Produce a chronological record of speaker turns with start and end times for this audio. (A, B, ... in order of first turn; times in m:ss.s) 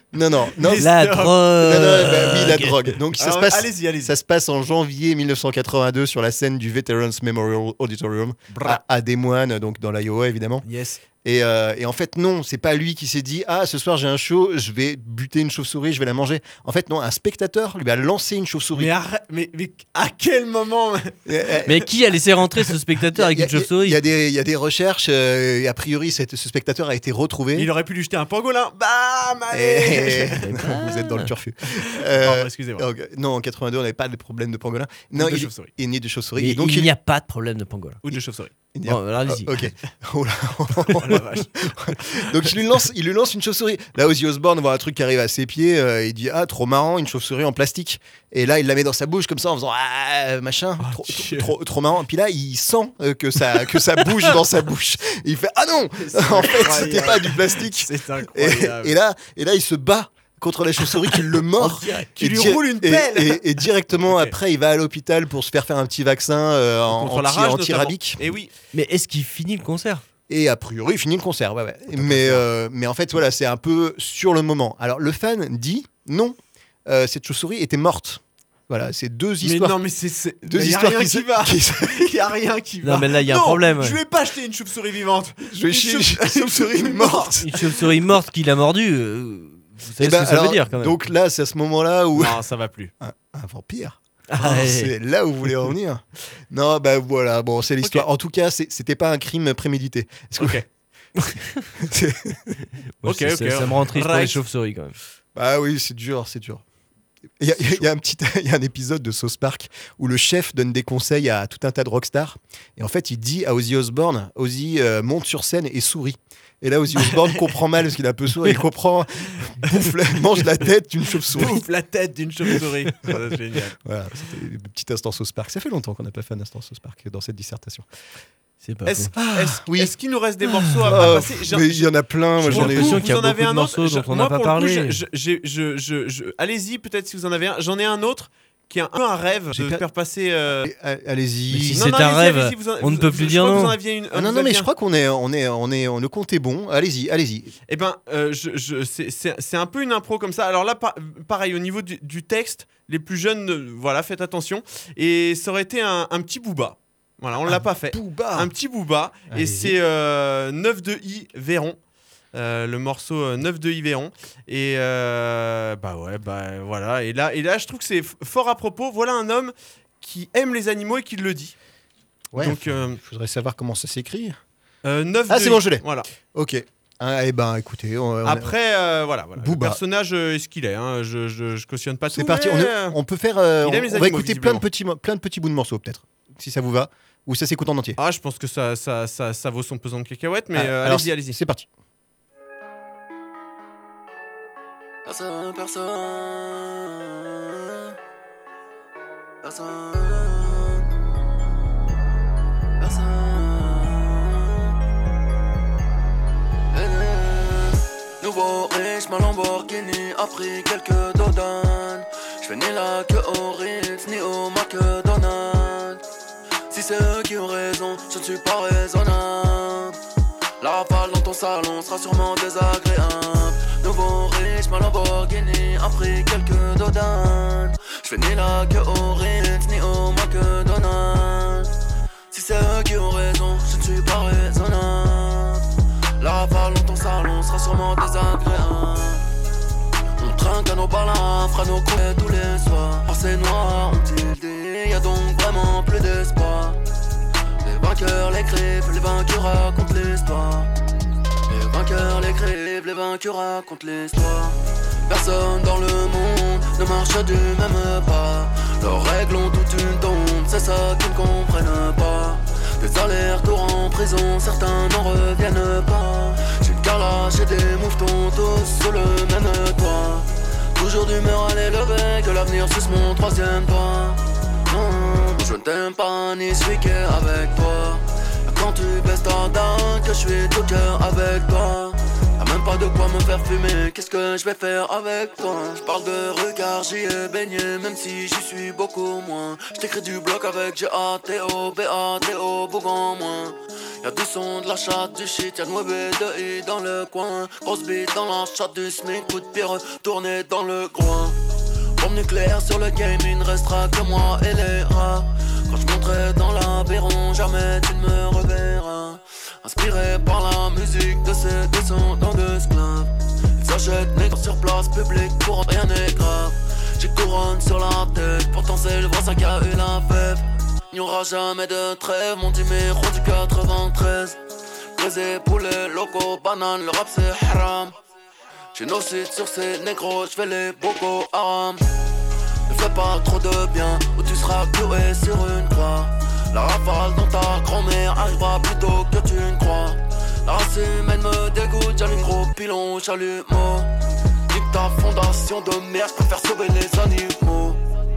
0:00.1-0:00.9 A
0:00.6-0:01.4 B
0:00.7-0:02.9 C
0:01.5-0:10.6 A
0:03.2-0:04.1 B
0:08.5-0:08.8 B
0:10.6-0:11.0 B
0:11.2-0:18.9 A
0:18.7-0:21.1 B
0:21.2-0:21.8 A
0:21.6-0:24.0 C
0:23.1-0:27.7 A
0:27.5-0:30.4 B
0:29.5-0:36.9 A
0:30.4-0:31.3 C
0:31.8-0:32.8 B
0:35.2-0:35.7 B
0:36.4-0:38.0 C
0:38.0-0:38.5 B
0:38.7-1:08.2 A
0:38.8-0:39.6 C
0:41.0-0:42.3 B
0:50.8-0:51.5 B
0:56.0-0:59.0 B
1:01.6-1:02.1 C
1:01.9-1:04.3 B
1:06.9-1:08.5 B
1:08.7-1:10.0 C
1:10.3-1:19.8 A
1:12.0-1:12.4 C
1:19.4-1:27.4 B
1:20.4-1:22.0 A
1:22.8-1:24.0 C
1:25.5-1:27.6 A
1:27.4-1:31.0 C
1:30.0-1:32.4 A
1:32.1-1:32.9 B
1:33.0-1:40.6 A
1:34.3-1:34.9 C
1:40.4-1:40.6 B
1:41.8-1:42.5 A
1:43.0-1:45.0 C
1:43.0-1:44.4 B
1:45.3-1:46.6 A
1:47.4-2:01.6 A
1:57.1-1:57.6 B
2:01.3-2:03.8 B
2:03.8-2:07.8 A
2:08.6-2:09.1 C
2:08.8-2:20.6 B
2:09.2-2:09.9 A
2:10.6-2:11.2 C
2:10.8-2:13.4 A
2:12.4-2:15.0 C
2:19.5-2:19.8 A
2:20.6-2:22.0 A
2:21.5-2:23.8 C
2:21.7-2:24.7 B
2:24.1-2:27.5 A
2:27.7-2:41.8 B
2:37.4-2:38.5 A
2:39.3-2:39.8 A
2:42.3-2:51.5 B
2:52.3-2:54.4 A
2:52.4-2:53.0 B
2:54.8-2:56.1 B
2:55.3-2:55.8 A
2:56.3-2:58.5 A
2:58.2-3:03.0 B
2:59.4-2:59.8 A
3:02.1-3:08.0 A
3:03.6-3:04.6 B
3:08.0-3:11.4 B
3:10.5-3:11.7 A
3:15.0-3:17.9 D
3:19.4-3:20.8 D
3:22.8-3:24.7 D
3:26.7-3:36.0 D
3:36.7-3:40.0 D
3:40.6-3:51.7 D
3:52.3-3:55.6 D
3:56.2-3:59.2 D
4:00.2-4:06.8 D
4:07.6-4:10.7 D
4:11.5-5:01.4 D
5:02.0-5:24.4 D
5:24.9-5:27.9 D
5:28.7-5:31.8 D
5:32.7-5:43.9 D
5:44.5-5:47.8 D